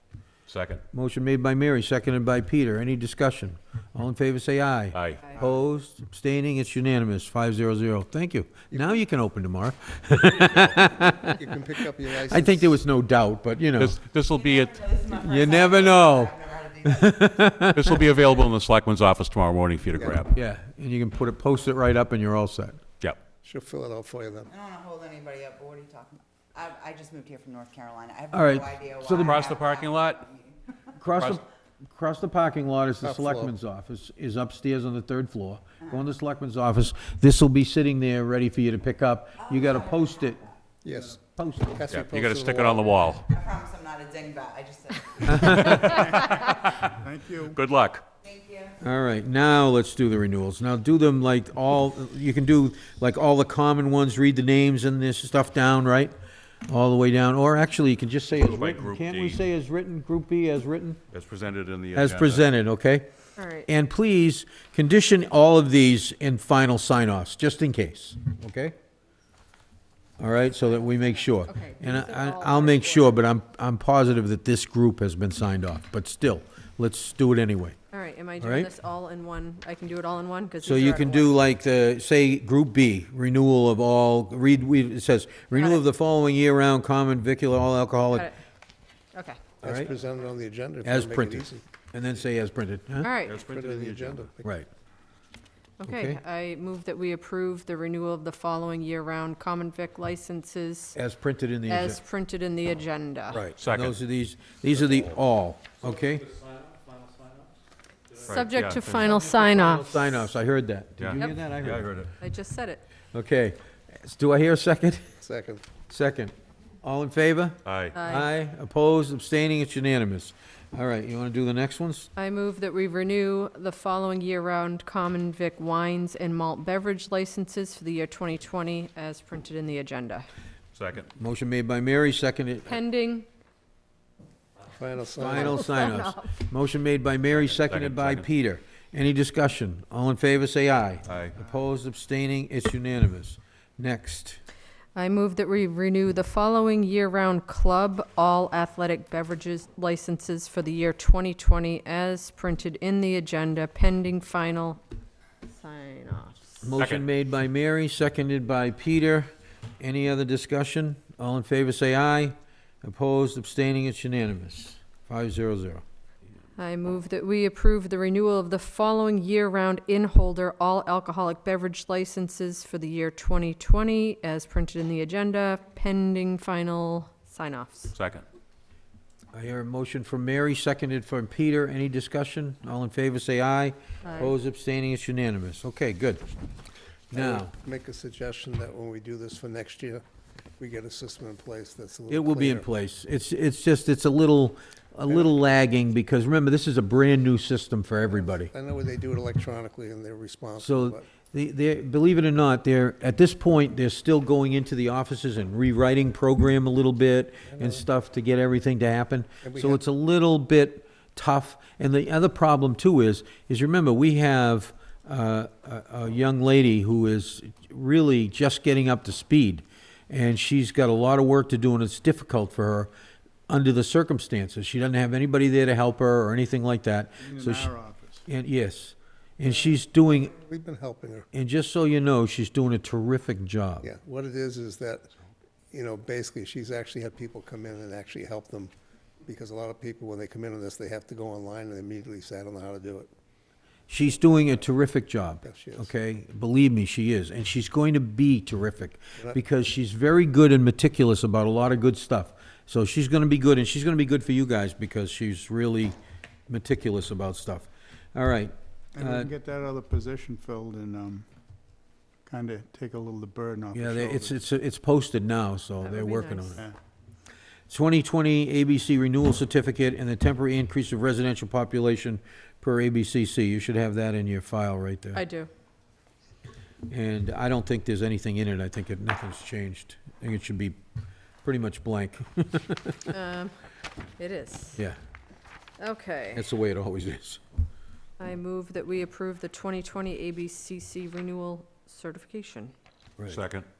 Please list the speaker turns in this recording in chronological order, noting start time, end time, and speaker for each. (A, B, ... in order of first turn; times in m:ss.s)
0:00.5-0:00.8 A
0:00.9-0:11.4 B
0:04.9-0:05.2 A
0:11.2-0:12.8 C
0:12.3-0:14.0 B
0:13.8-0:15.1 A
0:14.6-0:17.1 D
0:15.1-0:18.0 B
0:17.7-0:20.4 A
0:20.0-0:20.2 C
0:20.3-0:22.8 B
0:23.4-0:24.5 C
0:24.5-0:30.6 D
0:28.3-0:29.5 B
0:29.1-0:30.3 A
0:31.0-0:40.4 B
0:31.2-0:31.4 A
0:33.0-0:33.5 C
0:39.5-0:40.0 D
0:40.8-0:41.2 C
0:41.4-0:41.8 B
0:41.7-0:43.1 C
0:41.9-0:43.3 A
0:43.3-0:45.3 D
0:45.2-0:45.8 B
0:45.3-0:48.0 A
0:45.8-0:47.6 E
0:48.2-0:48.7 D
0:48.8-0:56.1 B
0:56.7-1:01.0 B
0:58.4-0:59.4 A
1:01.1-1:02.5 A
1:01.9-1:03.1 B
1:03.4-1:03.7 F
1:03.7-1:08.7 B
1:10.2-1:17.8 B
1:11.5-1:13.2 F
1:17.9-1:21.4 F
1:18.4-1:18.7 B
1:20.6-1:28.3 B
1:25.6-1:25.8 F
1:29.1-1:29.4 F
1:29.6-1:31.6 C
1:29.6-1:29.9 B
1:30.8-1:33.1 B
1:33.0-1:33.4 F
1:33.3-1:34.2 A
1:33.3-1:34.5 C
1:34.4-1:34.7 B
1:35.8-1:41.0 F
1:35.8-1:36.2 B
1:41.0-1:42.0 B
1:41.7-1:43.5 F
1:43.3-1:46.3 B
1:43.6-1:44.0 A
1:44.8-1:45.1 A
1:48.2-1:49.1 A
1:48.2-1:50.2 F
1:49.0-1:51.9 B
1:51.0-1:52.1 A
1:52.2-1:52.8 F
1:53.1-1:55.1 B
1:55.2-1:55.6 C
1:55.9-2:02.1 B
1:57.6-1:58.0 A
1:58.0-1:58.3 F
2:02.2-2:10.3 F
2:10.8-2:11.1 A
2:11.2-2:12.8 B
2:12.7-2:13.3 F
2:14.7-2:15.7 C
2:15.2-2:24.4 B
2:15.3-2:16.2 F
2:17.3-2:18.3 A
2:21.1-2:21.4 A
2:25.0-2:34.8 F
2:35.5-2:36.7 F
2:36.6-2:45.8 B
2:36.8-2:37.1 A
2:46.6-2:58.0 F
2:57.9-2:58.2 A
2:59.3-3:06.3 B
3:04.0-3:04.3 F
3:07.1-3:07.5 B
3:07.1-3:10.0 C
3:10.6-3:12.7 C
3:12.1-3:18.5 B
3:18.2-3:21.0 C
3:20.6-3:42.9 B
3:27.6-3:27.8 C
3:29.4-3:29.8 C
3:43.5-3:47.7 B
3:47.2-3:48.2 E
3:48.3-3:50.3 B
3:50.3-3:51.3 C
3:51.3-3:53.9 B
3:53.8-3:55.1 C
3:55.7-3:58.7 C
3:59.2-4:03.1 C
4:03.9-4:16.0 B
4:05.4-4:05.9 C
4:16.5-4:19.3 B
4:18.9-4:21.3 E
4:22.2-4:24.4 E
4:23.7-4:26.6 B
4:25.8-4:26.6 F
4:27.7-4:35.2 B
4:35.2-4:35.5 F
4:36.9-4:40.8 B
4:41.4-4:43.1 B
4:43.1-4:43.5 F
4:44.2-4:44.8 F
4:45.8-4:46.4 F
4:46.4-4:47.4 B
4:48.2-4:52.7 F
4:53.3-4:53.7 A